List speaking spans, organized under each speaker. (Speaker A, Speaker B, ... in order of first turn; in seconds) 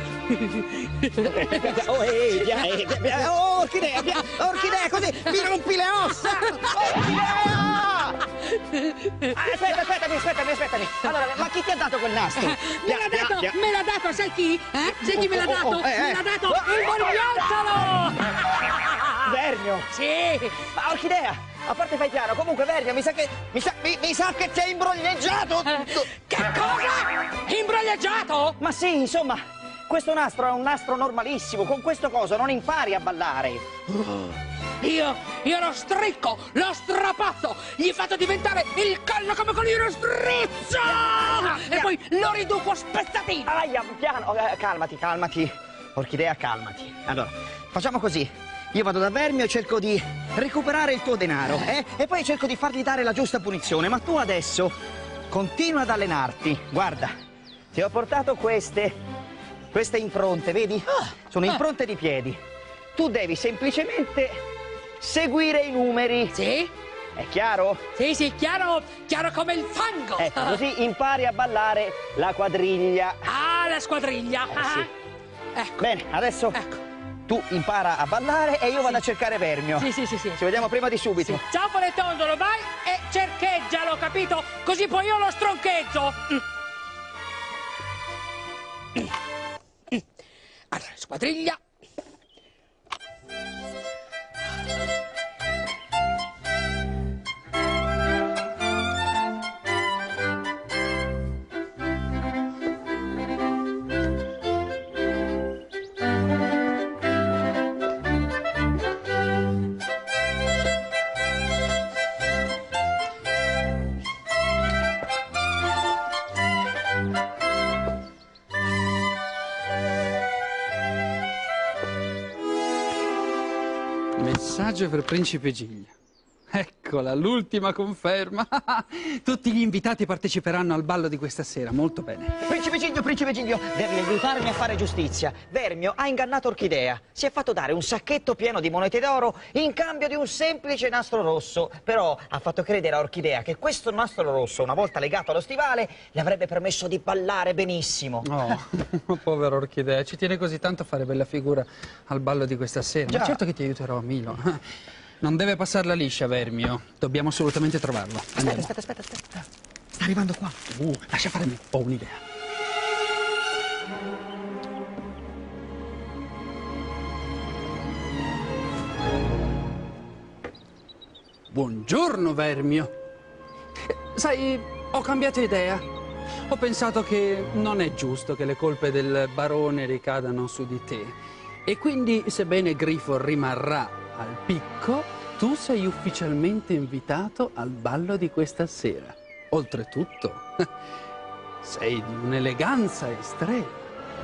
Speaker A: 0.3-2.7, 4.2-7.1, 8.4-9.4, 12.4-19.3, 19.9-20.6, 25.7-28.6, 34.8-43.5, 66.3-66.7, 68.0-70.6, 73.2-74.9, 75.5-75.9, 76.5-76.8, 79.8-80.4, 81.2-86.4, 90.7-91.6
Speaker B: 1.2-8.2, 9.3-13.6, 15.1-17.3, 19.2-19.9, 20.7-26.1, 28.6-33.6, 41.0-41.9, 43.5-54.7, 55.3-57.1, 57.7-59.0, 59.7-62.4, 63.0-64.4, 65.0-66.3, 67.2-67.8, 70.2-73.2, 74.5-74.9, 75.8-76.6, 77.3-81.4, 132.4-148.3, 153.1-153.4, 158.4-160.6
Speaker C: 124.2-125.9, 126.5-132.4, 148.2-154.6, 155.2-158.7, 160.8-162.2, 171.5-172.9, 173.8-175.8, 176.5-190.7, 191.6-193.9